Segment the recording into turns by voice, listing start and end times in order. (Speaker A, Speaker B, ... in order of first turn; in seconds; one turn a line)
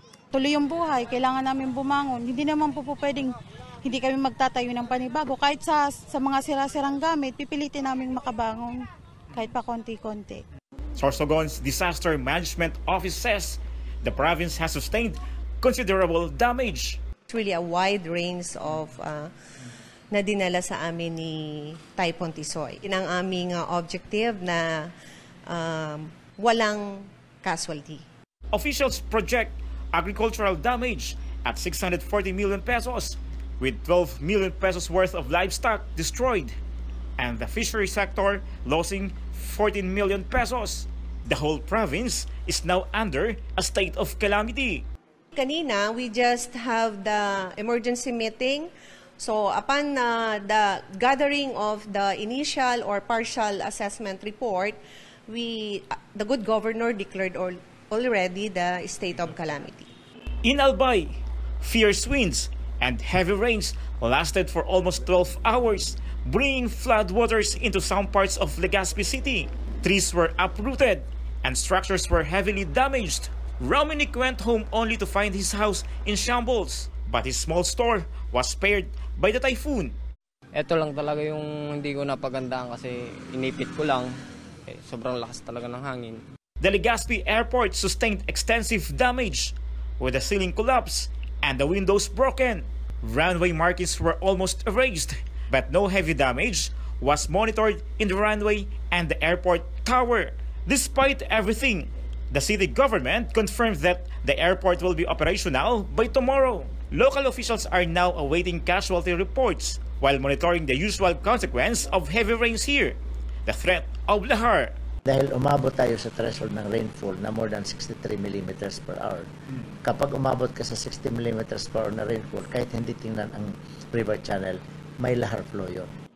Speaker A: 0.3-3.3
Speaker A: 3.8-10.4
Speaker B: 11.0-17.0
Speaker C: 17.3-19.3
Speaker C: 20.1-24.9
Speaker C: 25.5-28.0
Speaker B: 28.5-36.6
Speaker B: 37.2-44.8
Speaker C: 45.3-54.8
Speaker C: 55.3-59.9
Speaker B: 60.4-80.0
Speaker D: 80.6-84.1
Speaker D: 84.8-86.2
Speaker B: 86.6-114.7
Speaker E: 115.0-119.3
Speaker E: 119.8-125.9